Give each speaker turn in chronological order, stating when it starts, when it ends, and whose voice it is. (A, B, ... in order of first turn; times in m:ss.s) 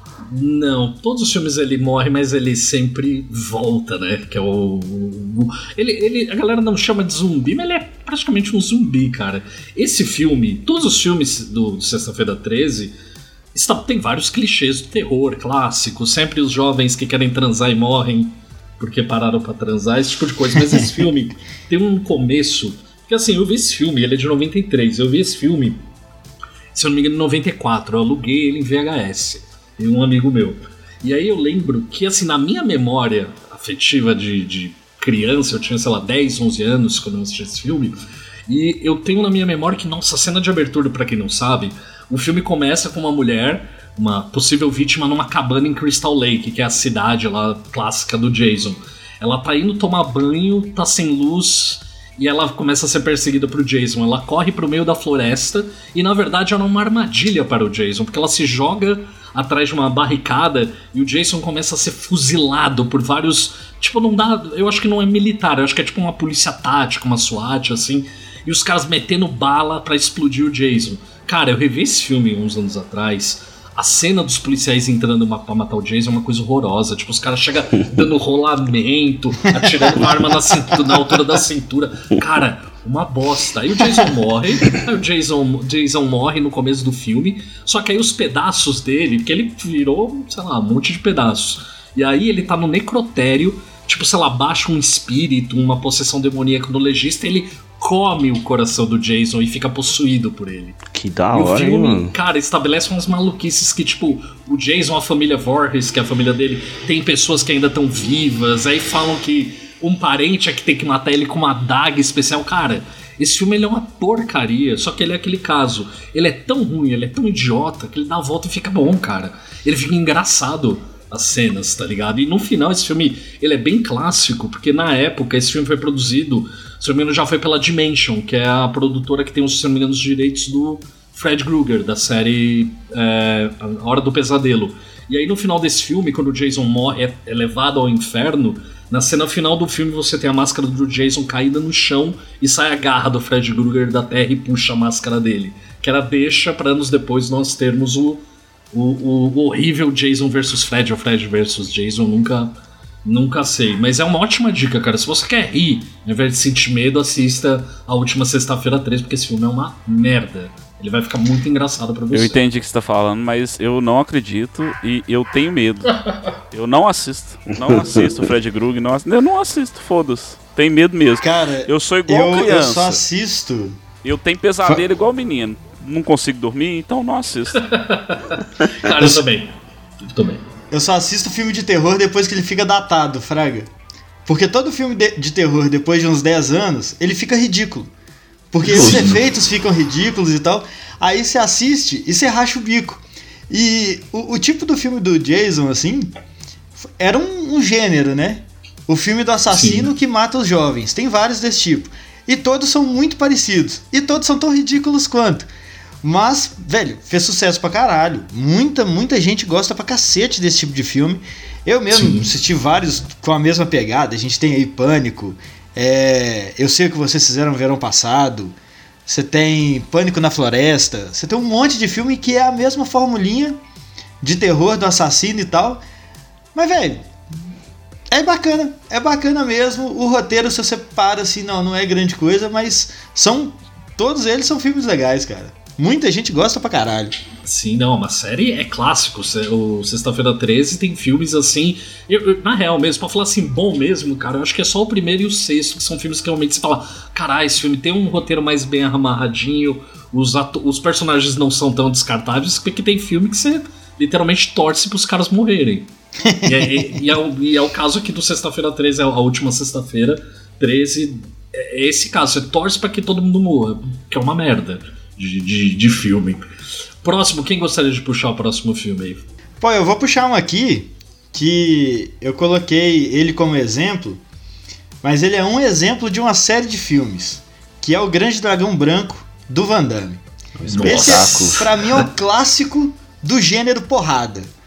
0:00.2-0:12.9 A
0:13.5-0:25.8 A
0:26.7-1:40.8 A
1:19.8-1:20.1 B
1:40.9-1:42.1 C
1:41.3-2:42.4 A
2:42.1-2:53.0 D
2:47.6-2:48.1 C
2:51.2-2:53.8 B
2:54.0-2:57.7 D
2:57.6-3:00.4 A
3:00.7-3:03.7 B
3:04.2-3:07.9 B
3:08.5-3:16.1 B
3:08.6-3:09.2 A
3:16.8-3:25.5 B
3:19.5-3:19.9 A
3:26.0-3:43.6 B
3:31.9-3:32.3 A
3:44.2-3:45.8 B
3:46.5-3:47.1 B
3:48.1-3:57.1 B
3:57.4-4:15.9 A
4:16.2-4:16.9 B
4:16.4-4:26.4 A
4:27.0-4:29.3 A
4:29.6-4:34.2 B
4:35.0-4:40.2 B
4:40.6-4:42.0 A
4:40.7-4:41.6 C
4:40.7-4:44.5 B